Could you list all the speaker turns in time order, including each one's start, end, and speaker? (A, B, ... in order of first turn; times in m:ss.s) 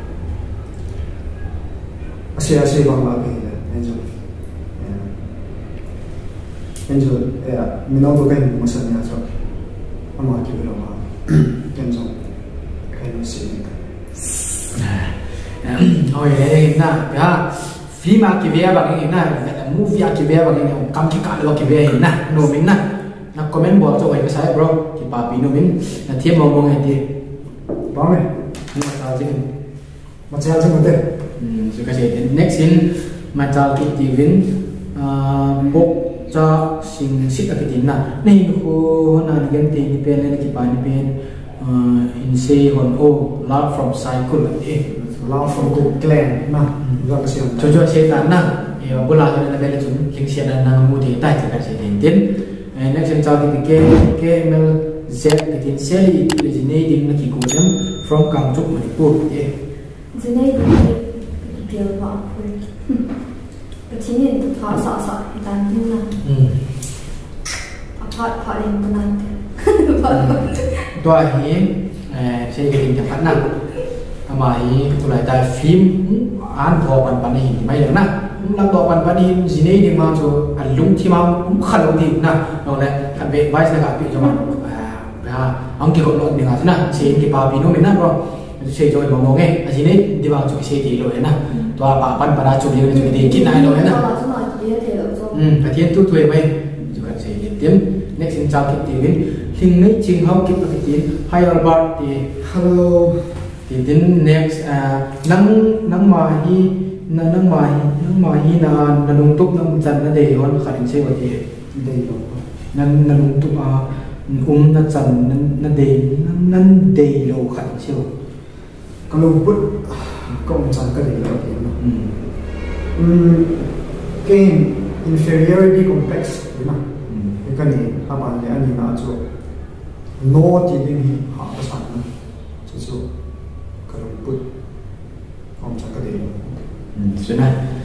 0:02.3-0:04.1 A
0:04.7-0:05.2 A
0:06.9-0:09.2 A
0:10.2-0:12.1 A
0:12.9-0:13.8 A
0:14.7-0:22.8 B
0:23.3-0:27.1 B
0:27.9-0:28.3 A
0:28.7-0:29.4 B
0:30.3-0:31.0 A
0:31.4-0:44.8 B
0:44.9-0:47.9 A
0:47.6-0:59.5 B
1:00.1-1:03.0 C
1:03.9-1:06.1 C
1:06.2-1:06.5 B
1:08.0-1:10.9 C
1:10.1-1:13.4 B
1:14.3-1:34.0 B
1:32.9-1:35.4 C
1:35.3-1:42.3 B
1:42.4-1:43.3 A
1:43.7-1:51.4 B
1:51.7-1:52.4 A
1:52.7-1:58.1 B
1:59.1-2:01.8 A
2:01.8-2:02.1 B
2:03.0-2:03.7 A
2:04.2-2:06.8 A
2:07.1-2:07.4 B
2:07.4-2:09.2 A
2:10.2-2:12.1 A
2:12.6-2:13.0 A
2:13.9-2:14.4 A
2:15.6-2:16.6 A
2:16.9-2:17.5 B